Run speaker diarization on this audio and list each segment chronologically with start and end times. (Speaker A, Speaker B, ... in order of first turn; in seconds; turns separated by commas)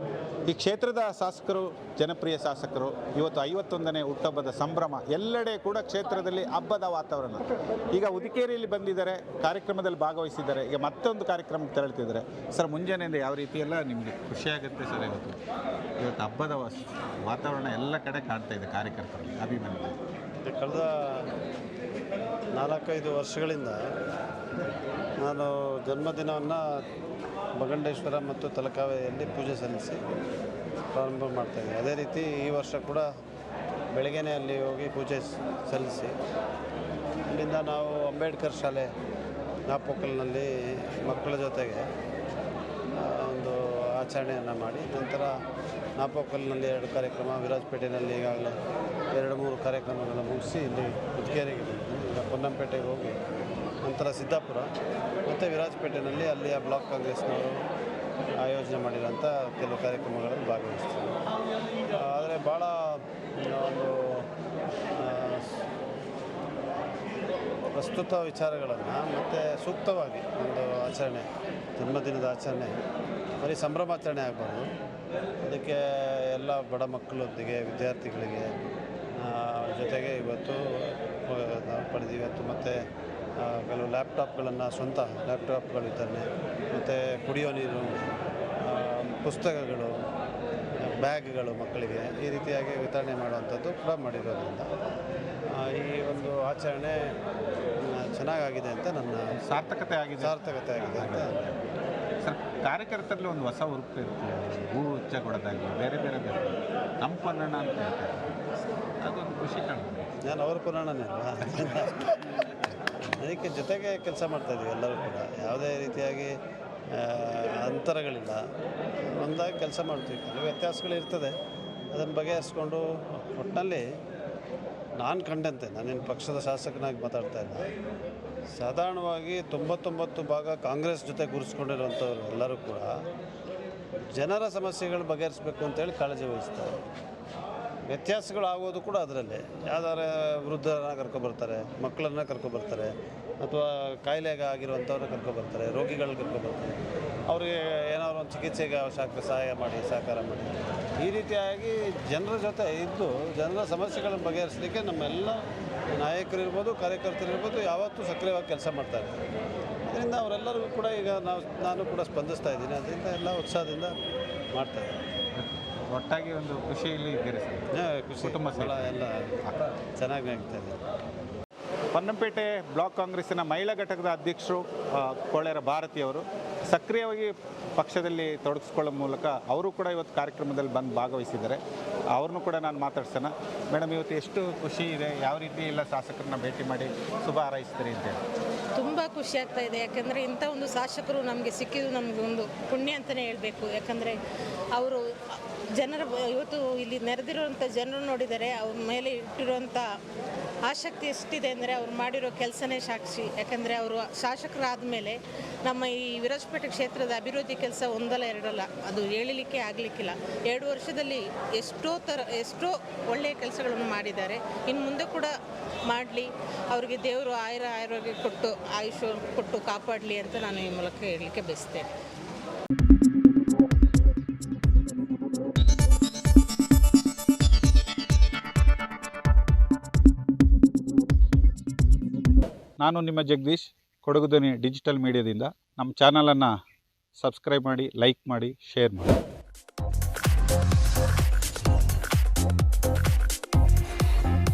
Speaker A: 0.5-15.4, Speaker A: 16.0-20.0, Speaker B: 20.5-21.3, Speaker B: 22.6-23.8, Speaker B: 25.2-26.6, Speaker B: 27.6-30.0, Speaker B: 30.9-33.1, Speaker B: 33.9-36.1, Speaker B: 37.3-38.9, Speaker B: 39.7-41.9, Speaker B: 43.0-45.3, Speaker B: 46.0-48.5, Speaker B: 49.1-53.2, Speaker B: 53.8-54.7, Speaker B: 55.3-57.6, Speaker B: 58.4-61.2, Speaker B: 61.9-64.3, Speaker B: 64.9-65.6, Speaker B: 67.7-72.7, Speaker B: 73.4-74.7, Speaker B: 75.4-78.5, Speaker B: 79.2-82.8, Speaker B: 83.4-88.0, Speaker B: 88.6-90.0, Speaker B: 90.8-94.7, Speaker B: 95.5-97.0, Speaker B: 97.8-99.3, Speaker A: 99.3-101.6, Speaker B: 100.2-101.3, Speaker A: 102.2-110.1, Speaker B: 110.2-112.2, Speaker A: 111.6-111.8, Speaker B: 113.2-116.3, Speaker B: 116.9-118.4, Speaker B: 119.2-121.3, Speaker B: 121.9-123.9, Speaker B: 125.0-127.7, Speaker B: 128.6-133.0, Speaker B: 134.1-136.8, Speaker B: 137.9-146.7, Speaker B: 147.3-159.1, Speaker B: 159.9-163.9, Speaker B: 164.5-165.0, Speaker A: 165.3-167.7, Speaker B: 167.7-169.4, Speaker A: 168.2-169.6, Speaker B: 170.0-170.8, Speaker A: 171.9-181.6, Speaker A: 182.1-188.2, Speaker C: 188.8-194.2, Speaker C: 194.7-199.8, Speaker C: 200.7-215.3, Speaker C: 215.9-221.9, Speaker A: 232.8-236.5, Speaker A: 237.2-239.2